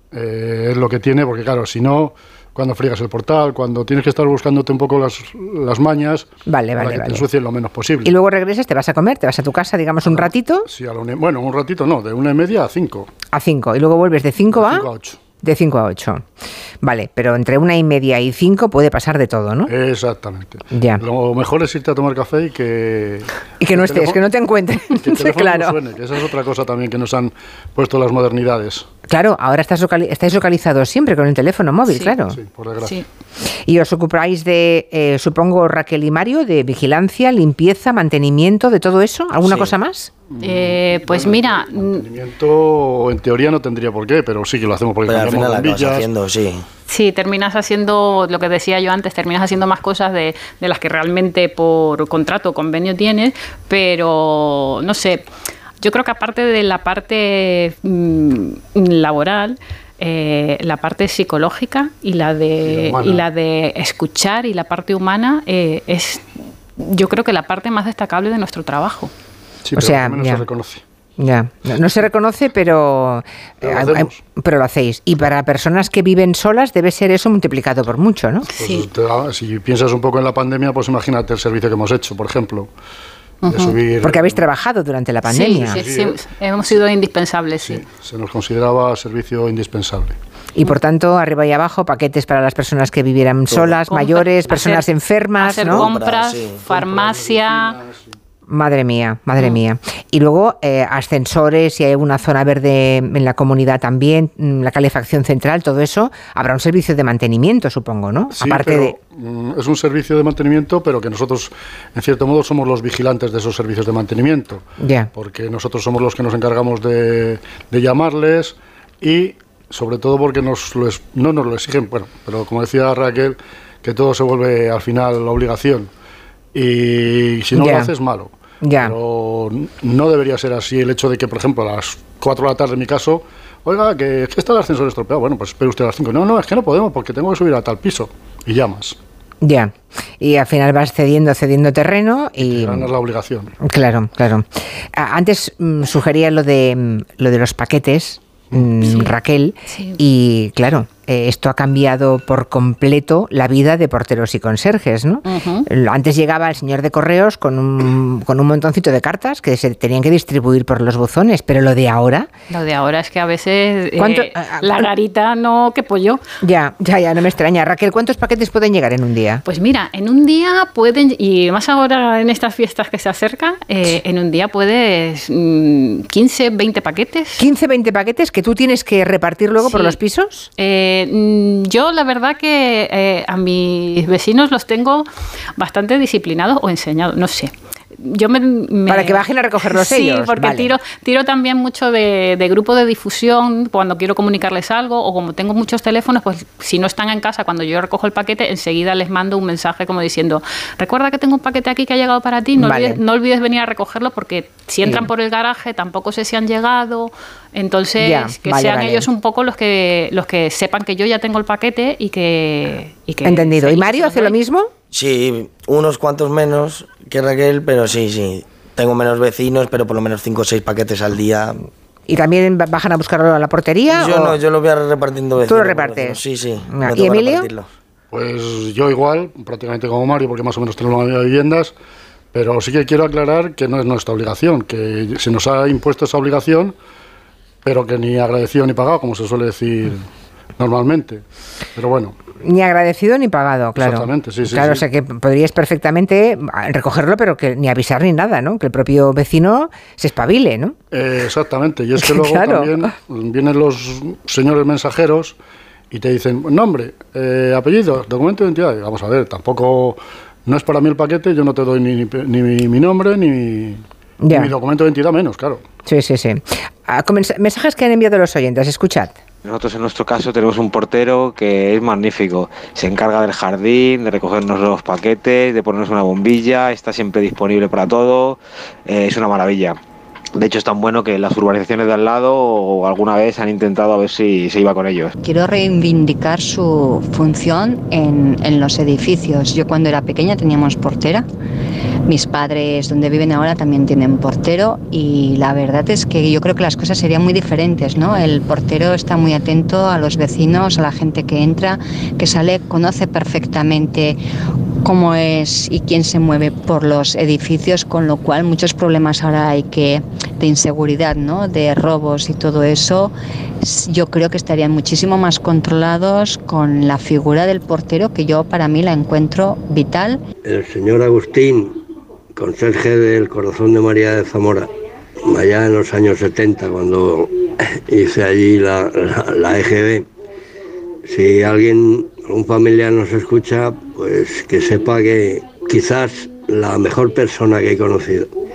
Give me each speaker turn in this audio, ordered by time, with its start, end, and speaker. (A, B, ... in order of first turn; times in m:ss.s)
0:00.1-0:08.1 A
0:06.4-0:07.2 B
0:08.0-0:10.7 B
0:10.2-0:13.1 A
0:13.3-0:14.9 B
0:14.5-0:15.2 A
0:15.4-0:16.2 B
0:16.8-0:19.7 B
0:19.7-0:24.2 A
0:20.7-0:21.0 B
0:23.6-0:25.8 B
0:25.0-0:28.8 A
0:29.1-0:32.4 B
0:31.9-0:32.1 C
0:32.3-0:33.0 A
0:33.4-0:40.1 B
0:39.4-0:39.7 D
0:40.3-0:46.0 A
0:40.4-0:42.0 C
0:45.0-0:46.6 D
0:46.9-0:55.2 C
0:55.8-1:09.1 C
1:02.7-1:03.2 A
1:09.6-1:10.8 A
1:09.7-1:10.4 B
1:11.2-1:18.5 B
1:13.6-1:14.1 A
1:18.5-1:18.8 C
1:18.6-1:22.7 A
1:23.4-1:23.8 C
1:23.5-1:24.4 A
1:24.0-1:25.8 B
1:25.2-1:27.8 C
1:25.7-1:26.2 A
1:27.6-1:30.2 A
1:30.5-1:35.9 B
1:33.8-1:34.8 C
1:35.4-1:37.8 C
1:35.6-1:36.7 D
1:36.9-1:38.1 A
1:38.5-1:48.9 B
1:48.3-2:05.9 A
1:54.8-1:55.1 B
2:06.5-2:19.0 A
2:07.5-2:07.9 B
2:08.6-2:08.9 B
2:19.4-2:22.9 B
2:22.4-2:23.5 A
2:23.6-2:42.3 B
2:28.8-2:29.1 C
2:29.6-2:30.0 C
2:35.2-2:35.7 C
2:42.5-2:46.2 C
2:44.0-2:44.9 B
2:46.4-2:49.4 B
2:49.4-2:57.4 C
2:57.4-3:00.5 B
2:59.6-3:00.0 C
3:00.6-3:05.0 C
3:05.6-3:34.4 C
3:08.9-3:10.7 B
3:22.6-3:23.0 B
3:28.0-3:29.1 B
3:33.2-3:34.7 B
3:34.9-3:41.7 D
3:42.1-3:44.4 B
3:43.9-3:47.7 D
3:45.4-3:47.5 B
3:48.1-3:51.7 A
3:52.3-3:56.8 A
3:57.6-4:00.1 A
4:00.6-4:01.2 A
4:01.8-4:02.1 A
4:02.4-4:10.8 B
4:03.8-4:04.8 A
4:10.9-4:15.4 A
4:12.0-4:12.9 B
4:15.9-4:25.6 A
4:24.2-4:24.5 B
4:25.8-4:29.2 B
4:29.4-4:39.8 E
4:40.4-4:45.1 E
4:45.2-4:51.2 F
4:52.0-5:04.2 F
5:04.8-5:20.2 F
5:20.4-5:21.8 G
5:22.3-5:24.7 G
5:25.2-5:30.1 G
5:31.0-5:38.3 G